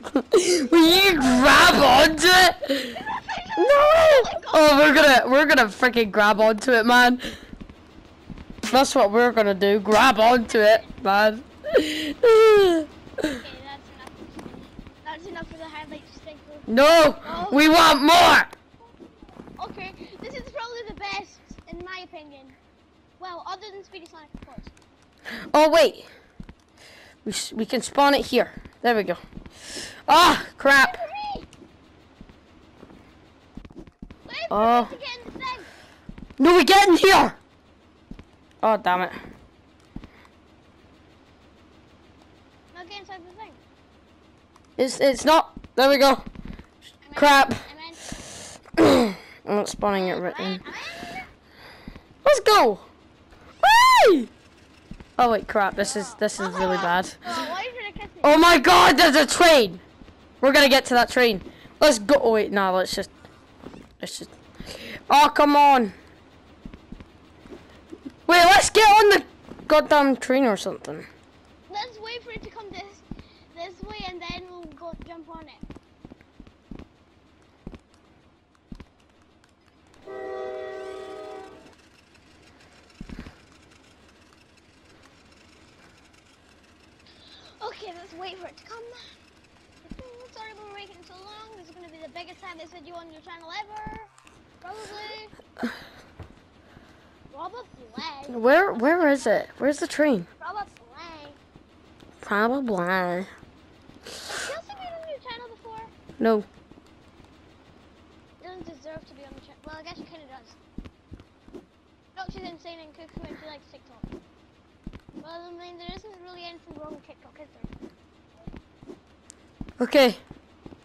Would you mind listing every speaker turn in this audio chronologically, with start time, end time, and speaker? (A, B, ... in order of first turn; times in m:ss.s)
0:00.1-0:03.0 A
0:00.6-0:01.8 B
0:02.9-0:04.8 B
0:03.6-0:07.3 A
0:08.7-0:13.4 A
0:10.1-0:10.9 B
0:13.2-0:18.0 B
0:16.7-0:18.5 A
0:19.6-0:22.6 B
0:23.2-0:24.7 B
0:25.5-0:26.1 A
0:27.2-0:29.2 A
0:30.1-0:31.0 A
0:30.7-0:31.5 B
0:34.2-0:35.7 B
0:34.5-0:34.9 A
0:36.4-0:37.4 A
0:38.6-0:39.2 A
0:42.7-0:43.6 B
0:44.8-0:46.2 A
0:47.0-0:48.0 B
0:47.2-0:47.6 A
0:48.8-0:50.6 A
0:49.9-0:51.3 B
0:52.2-0:52.8 A
0:53.6-0:54.3 A
0:55.2-0:57.4 A
0:55.7-0:58.4 B
0:58.2-0:59.8 A
1:00.4-1:03.1 A
1:04.0-1:04.3 A
1:05.1-1:05.9 A
1:08.2-1:11.0 A
1:11.7-1:15.6 B
1:27.3-1:29.1 B
1:29.8-1:34.1 B
1:34.6-1:35.3 B
1:37.3-1:39.5 B
1:38.3-1:40.3 A
1:40.4-1:41.4 B
1:42.2-1:43.3 A
1:44.3-1:45.9 B
1:46.2-1:46.5 A
1:48.4-1:50.6 B
1:52.1-1:54.1 B
1:55.2-1:57.7 B
1:59.8-2:00.2 A